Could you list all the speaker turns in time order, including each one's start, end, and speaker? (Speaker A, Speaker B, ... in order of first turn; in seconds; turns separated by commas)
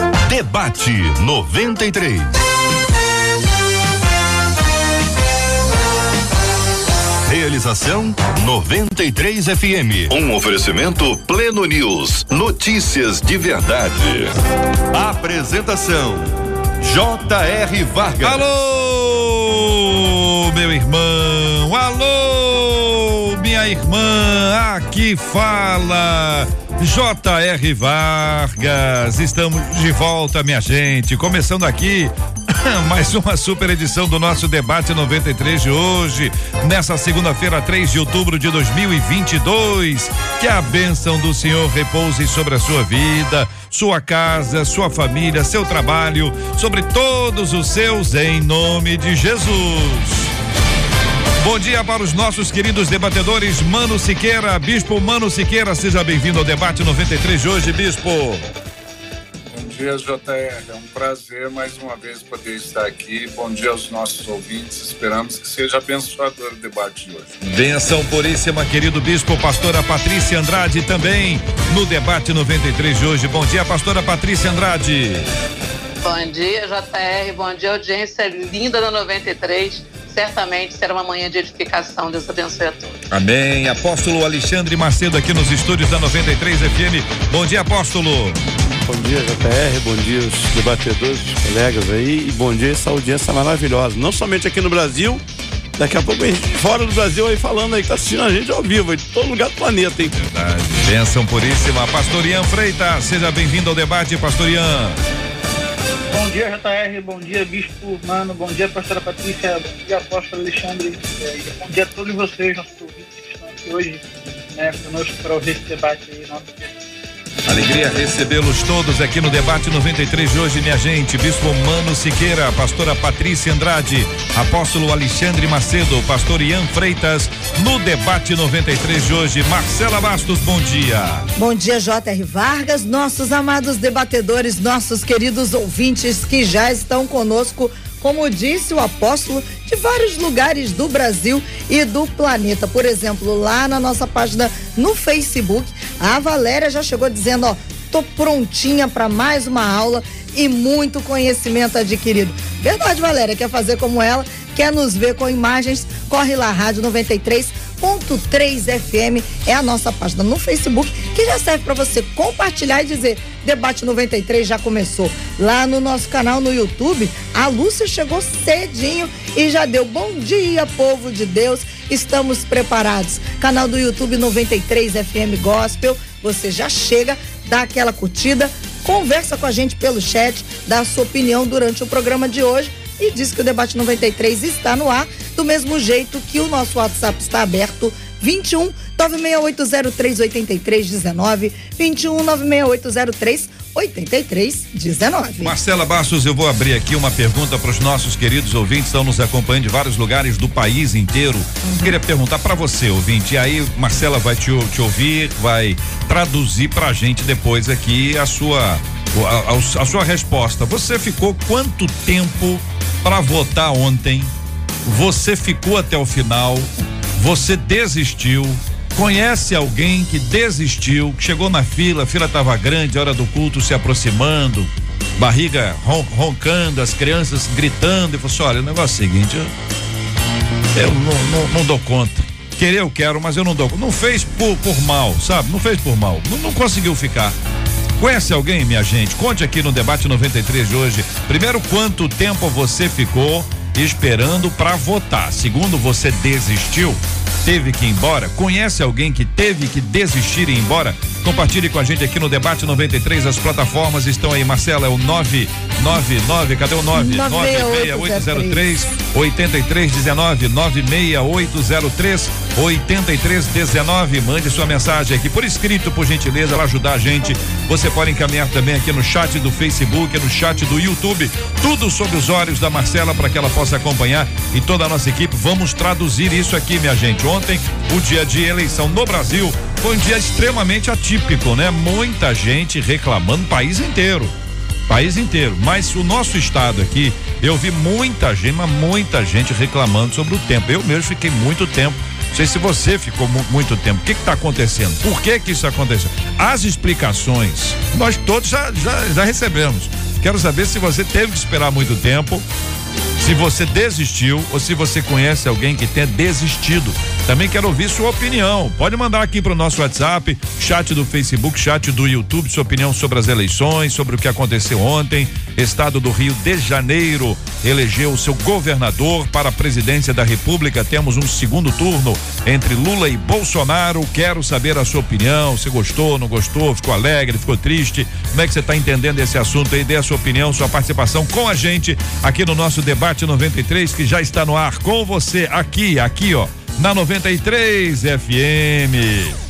Speaker A: 0.2-2.3, Speaker A: 7.2-14.4, Speaker A: 14.9-18.4, Speaker B: 18.2-50.3, Speaker B: 51.4-58.4, Speaker C: 59.5-67.3, Speaker B: 67.4-75.2, Speaker D: 76.0-83.0, Speaker B: 83.1-88.4, Speaker E: 88.8-95.2, Speaker E: 95.8-100.2, Speaker B: 100.1-105.0, Speaker F: 106.1-114.0, Speaker F: 114.5-116.8, Speaker B: 117.5-131.2, Speaker G: 131.3-195.6, Speaker B: 195.4-214.3, Speaker G: 201.6-201.9, Speaker B: 214.8-229.5, Speaker B: 230.7-237.3, Speaker B: 238.0-284.3, Speaker G: 256.9-258.6, Speaker B: 284.9-302.4, Speaker B: 303.2-339.4